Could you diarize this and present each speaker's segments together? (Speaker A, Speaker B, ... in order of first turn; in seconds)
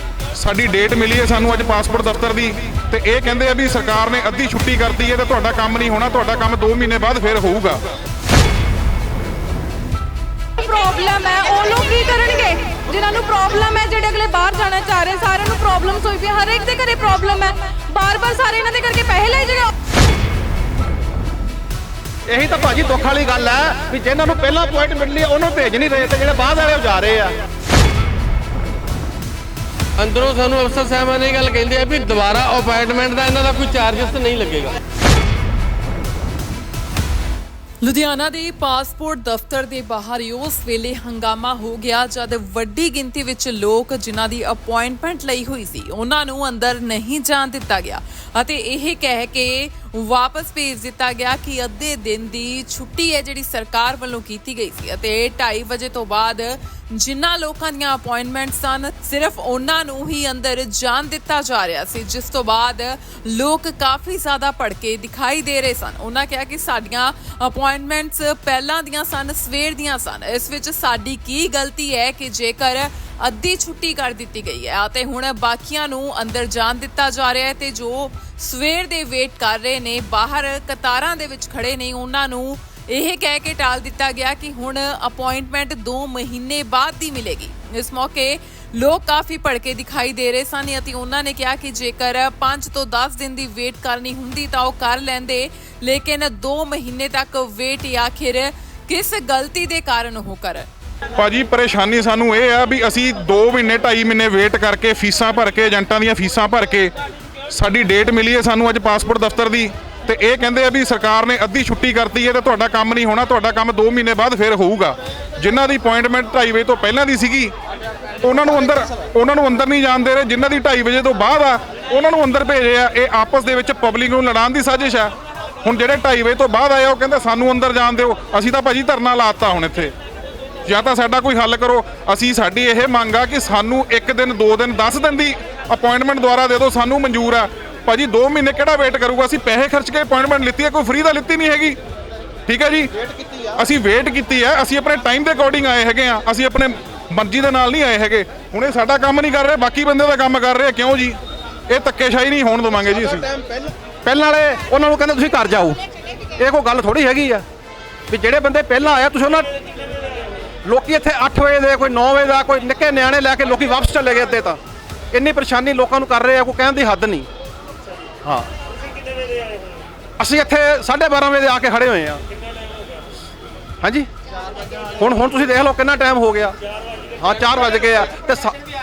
Speaker A: 0.4-7.8, 101.2-106.9, 107.5-117.5, 118.2-125.1, 125.6-129.9, 130.7-141.8, 142.5-142.9, 143.6-151.2, 151.7-153.2
Speaker B: 10.6-19.7
Speaker C: 22.3-27.4, 143.0-143.5, 153.1-155.8, 156.4-157.4, 158.1-159.5, 160.7-164.6, 165.1-167.3, 168.2-168.5, 170.2-172.2, 173.8-174.1, 175.0-176.6, 177.2-178.6
Speaker D: 30.0-34.7
Speaker E: 37.8-100.7